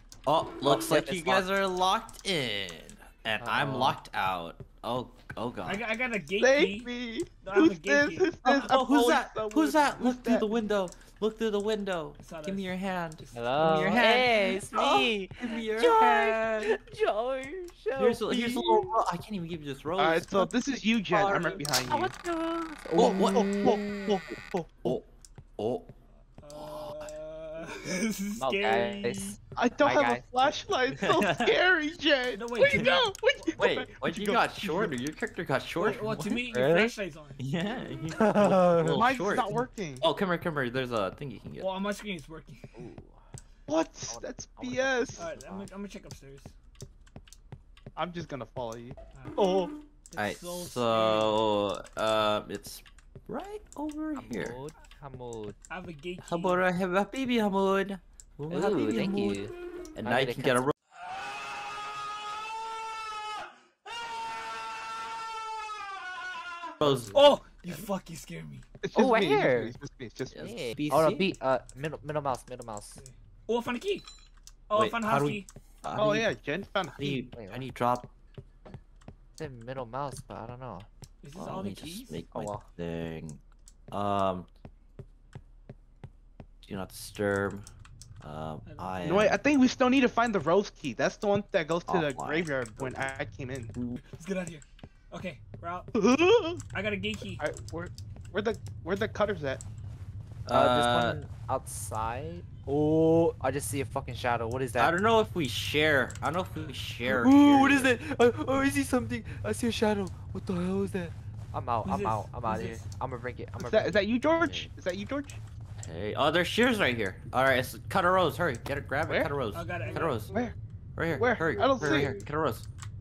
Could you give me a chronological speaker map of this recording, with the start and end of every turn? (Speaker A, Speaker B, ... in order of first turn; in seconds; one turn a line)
Speaker A: 0.2-5.8
Speaker B: 0.6-1.5
Speaker B: 3.4-4.0
Speaker C: 5.6-8.4
Speaker D: 6.4-10.5
Speaker A: 8.4-16.8
Speaker C: 12.2-13.8
Speaker B: 13.3-19.0
Speaker A: 18.0-20.5
Speaker D: 20.0-22.1
Speaker A: 21.1-21.6
Speaker B: 21.8-24.3
Speaker D: 22.9-25.0
Speaker A: 23.0-23.5
Speaker A: 25.6-25.9
Speaker C: 26.4-29.4
Speaker B: 28.4-30.3
Speaker D: 29.6-35.0
Speaker A: 30.9-31.6
Speaker C: 32.3-33.4
Speaker A: 33.6-36.5
Speaker C: 35.8-37.4
Speaker B: 36.5-36.9
Speaker A: 37.4-41.7
Speaker B: 38.2-39.0
Speaker D: 38.9-40.1
Speaker C: 41.6-42.9
Speaker B: 42.7-43.2
Speaker D: 43.7-45.3
Speaker B: 44.1-45.7
Speaker C: 45.1-46.5
Speaker D: 48.0-49.7
Speaker C: 50.1-51.4
Speaker A: 50.2-54.6
Speaker B: 54.1-55.6
Speaker C: 55.7-56.6
Speaker A: 56.2-59.4
Speaker B: 58.5-60.7
Speaker A: 60.0-60.7
Speaker A: 66.8-67.3
Speaker C: 67.1-68.6
Speaker D: 68.8-70.5
Speaker B: 68.9-69.7
Speaker A: 70.3-71.3
Speaker B: 70.4-73.0
Speaker C: 73.0-74.0
Speaker C: 74.7-75.5
Speaker A: 74.7-76.3
Speaker D: 76.0-77.2
Speaker A: 76.9-78.1
Speaker B: 77.3-77.7
Speaker B: 79.4-80.9
Speaker C: 81.2-82.2
Speaker A: 81.3-84.5
Speaker B: 82.3-82.7
Speaker A: 86.6-87.7
Speaker A: 88.2-89.4
Speaker C: 88.6-89.3
Speaker D: 89.0-93.7
Speaker A: 91.9-93.1
Speaker C: 94.1-95.9
Speaker D: 95.9-96.6
Speaker C: 96.7-97.4
Speaker D: 97.4-99.6
Speaker A: 100.5-101.2
Speaker B: 100.5-104.9
Speaker A: 104.8-107.9
Speaker C: 106.5-106.8
Speaker B: 107.0-114.0
Speaker C: 111.8-112.9
Speaker D: 113.6-115.4
Speaker A: 114.3-114.7
Speaker A: 115.8-120.3
Speaker D: 119.0-120.5
Speaker C: 119.5-120.5
Speaker A: 120.9-122.7
Speaker D: 121.1-122.2